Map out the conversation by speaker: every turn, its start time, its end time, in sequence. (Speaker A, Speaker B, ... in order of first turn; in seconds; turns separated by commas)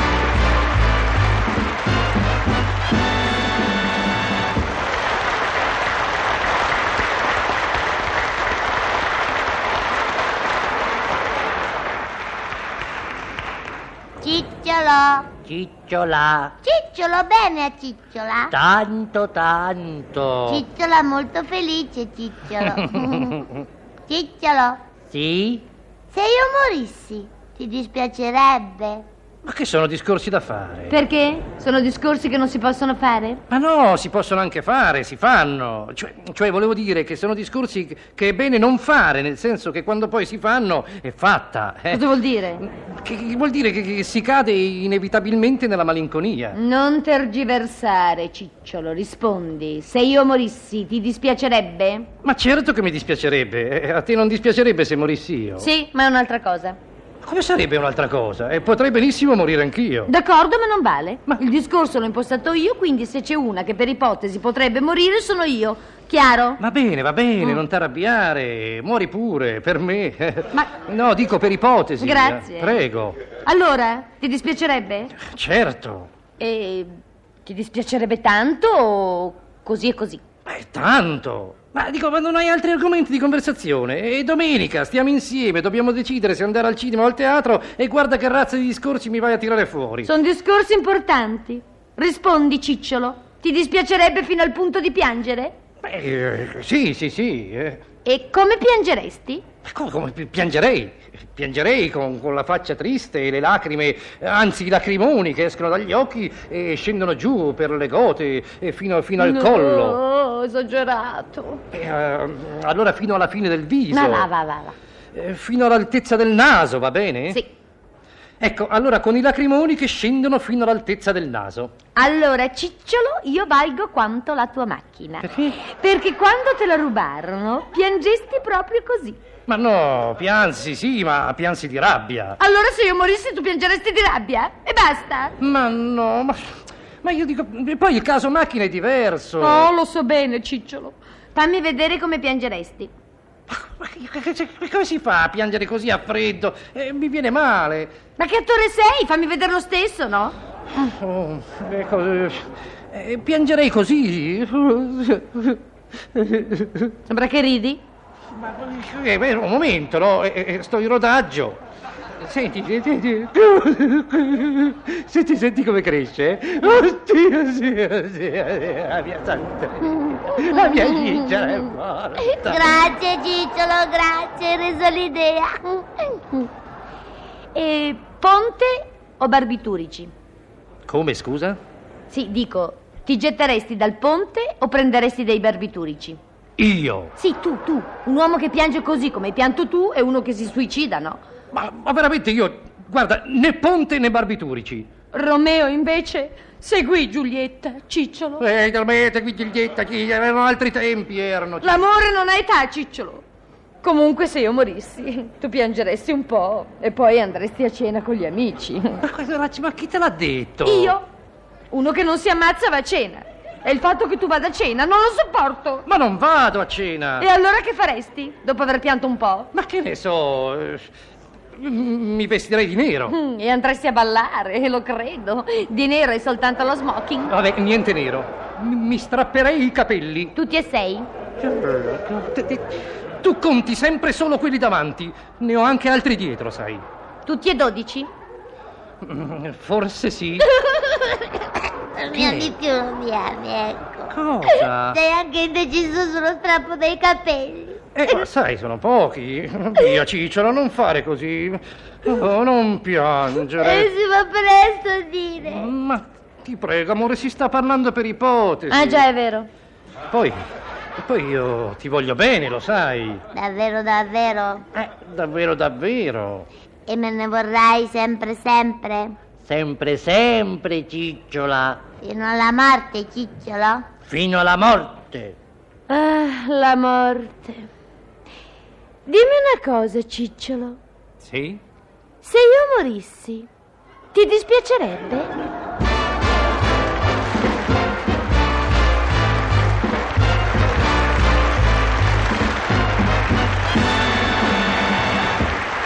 Speaker A: 14.2-15.3, Speaker B: 15.5-16.3, Speaker C: 15.7-16.5, Speaker A: 16.6-18.5, Speaker B: 18.5-20.6, Speaker C: 18.8-20.5, Speaker A: 20.5-23.4, Speaker B: 22.7-23.6, Speaker A: 24.1-24.8, Speaker C: 25.1-25.6, Speaker B: 25.1-25.6, Speaker A: 26.1-29.1, Speaker B: 29.4-31.0, Speaker D: 30.9-33.4, Speaker B: 33.5-42.0, Speaker D: 41.9-42.6, Speaker B: 42.6-46.6, Speaker D: 46.5-52.1, Speaker B: 52.2-55.7, Speaker D: 55.6-56.8, Speaker B: 57.2-60.1, Speaker D: 60.1-66.6, Speaker B: 66.6-73.2, Speaker D: 72.0-72.8, Speaker D: 73.5-75.1, Speaker B: 75.1-76.1, Speaker D: 76.4-76.9, Speaker D: 77.5-80.2, Speaker B: 80.5-90.1, Speaker D: 90.0-95.6, Speaker B: 95.8-97.8, Speaker D: 98.0-99.5, Speaker B: 99.7-110.0, Speaker D: 109.2-111.6, Speaker B: 111.7-114.3, Speaker D: 113.9-114.8, Speaker B: 115.1-117.4, Speaker B: 118.4-121.7, Speaker D: 122.0-129.2, Speaker B: 125.2-125.6, Speaker B: 129.5-132.4, Speaker D: 132.4-135.4, Speaker B: 135.4-139.7, Speaker D: 139.4-142.9, Speaker B: 143.5-147.9, Speaker D: 148.2-150.4, Speaker B: 150.7-155.6, Speaker B: 156.1-156.9, Speaker D: 157.1-157.8, Speaker B: 158.3-161.6, Speaker B: 162.2-172.8, Speaker D: 170.0-171.5, Speaker A: 172.5-175.6, Speaker D: 175.7-176.5, Speaker D: 177.6-180.1, Speaker B: 180.9-181.6, Speaker D: 182.1-186.2, Speaker B: 186.6-187.1, Speaker D: 187.2-191.2, Speaker B: 191.5-194.9, Speaker D: 195.1-198.4, Speaker B: 198.4-201.8, Speaker D: 201.6-203.2, Speaker D: 203.8-209.0, Speaker B: 209.0-211.0, Speaker D: 210.6-211.1, Speaker D: 211.7-215.9, Speaker B: 215.8-217.3, Speaker D: 217.2-219.5, Speaker B: 219.5-220.9, Speaker B: 221.6-223.2, Speaker D: 223.1-227.3, Speaker B: 227.3-230.3, Speaker D: 230.3-231.1, Speaker B: 231.4-232.7, Speaker B: 233.2-236.8, Speaker D: 237.3-238.1, Speaker B: 239.0-240.5, Speaker D: 240.7-241.0, Speaker A: 242.0-244.1, Speaker B: 242.1-242.6, Speaker B: 244.1-245.0, Speaker A: 244.9-248.2, Speaker B: 247.9-253.9, Speaker A: 253.4-255.7, Speaker B: 255.4-259.1, Speaker D: 258.7-259.5, Speaker B: 261.0-263.2, Speaker A: 263.3-264.6, Speaker B: 264.7-266.5, Speaker A: 266.9-269.2, Speaker C: 269.5-271.8, Speaker A: 272.0-273.9, Speaker C: 274.1-275.4, Speaker B: 274.5-274.9, Speaker D: 275.9-277.7, Speaker D: 279.1-280.8, Speaker B: 281.2-281.6, Speaker D: 282.2-283.5, Speaker D: 284.1-285.3